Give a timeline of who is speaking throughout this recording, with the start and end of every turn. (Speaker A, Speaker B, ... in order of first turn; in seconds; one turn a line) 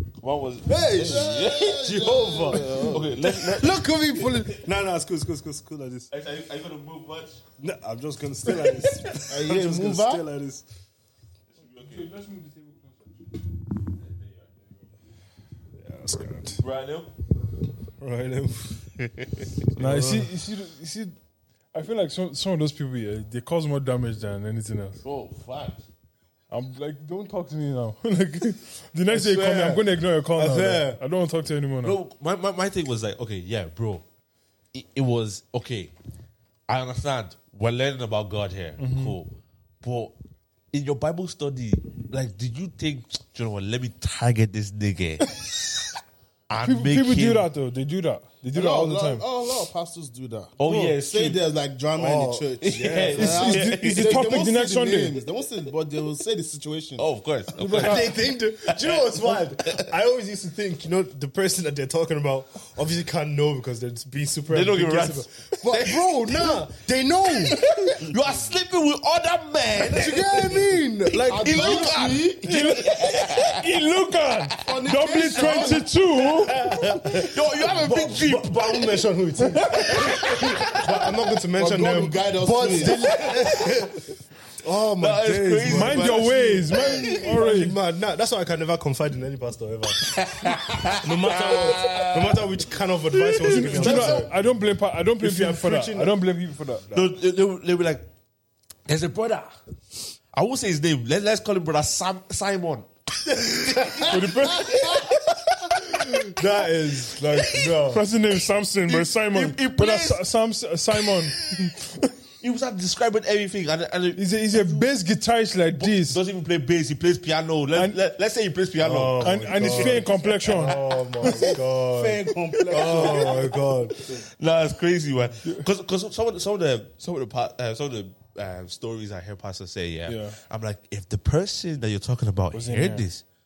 Speaker A: 0.2-1.9
Speaker B: 0.7-4.5
Speaker C: 0.9-1.3
Speaker C: 1.8-3.0
Speaker A: 2.5-3.9
Speaker C: 3.5-6.1
Speaker A: 6.1-7.4
Speaker C: 7.6-10.7
Speaker B: 9.3-10.2
Speaker A: 11.5-12.1
Speaker D: 11.8-13.0
Speaker A: 14.0-14.5
Speaker C: 15.8-16.6
Speaker A: 16.6-17.1
Speaker C: 18.0-18.8
Speaker A: 19.0-20.3
Speaker D: 19.8-21.1
Speaker D: 21.7-25.0
Speaker A: 25.0-25.8
Speaker D: 26.5-32.0
Speaker C: 29.1-29.9
Speaker C: 30.4-31.0
Speaker A: 31.8-34.0
Speaker A: 34.7-35.9
Speaker A: 36.7-40.1
Speaker D: 38.8-39.2
Speaker A: 40.7-45.4
Speaker A: 46.5-47.5
Speaker D: 46.6-49.2
Speaker B: 48.5-57.0
Speaker A: 50.6-51.4
Speaker D: 50.7-50.9
Speaker C: 52.0-53.4
Speaker A: 52.6-54.3
Speaker D: 53.2-55.2
Speaker A: 57.0-59.9
Speaker D: 57.6-58.1
Speaker C: 57.7-68.0
Speaker A: 64.5-66.6
Speaker A: 67.5-73.7
Speaker C: 69.8-72.3
Speaker B: 71.2-72.6
Speaker D: 72.4-76.7
Speaker B: 74.6-75.9
Speaker C: 76.2-84.1
Speaker A: 76.9-81.2
Speaker B: 81.5-83.0
Speaker A: 82.9-83.8
Speaker C: 84.6-90.0
Speaker A: 85.0-87.4
Speaker D: 85.7-87.8
Speaker A: 90.0-92.5
Speaker C: 91.0-94.3
Speaker A: 93.1-94.3
Speaker D: 93.4-96.8
Speaker C: 95.2-96.2
Speaker A: 96.9-98.1
Speaker A: 98.9-99.5
Speaker A: 100.3-106.3
Speaker C: 103.8-104.3
Speaker D: 104.1-104.8
Speaker C: 105.8-108.0
Speaker A: 107.2-107.8
Speaker D: 107.9-111.9
Speaker A: 108.9-110.2
Speaker A: 111.0-111.7
Speaker A: 112.4-114.8
Speaker D: 114.2-116.2
Speaker A: 115.7-121.5
Speaker C: 118.8-124.0
Speaker D: 119.2-120.8
Speaker B: 121.2-124.2
Speaker A: 122.8-133.2
Speaker D: 130.1-130.4
Speaker D: 132.5-133.1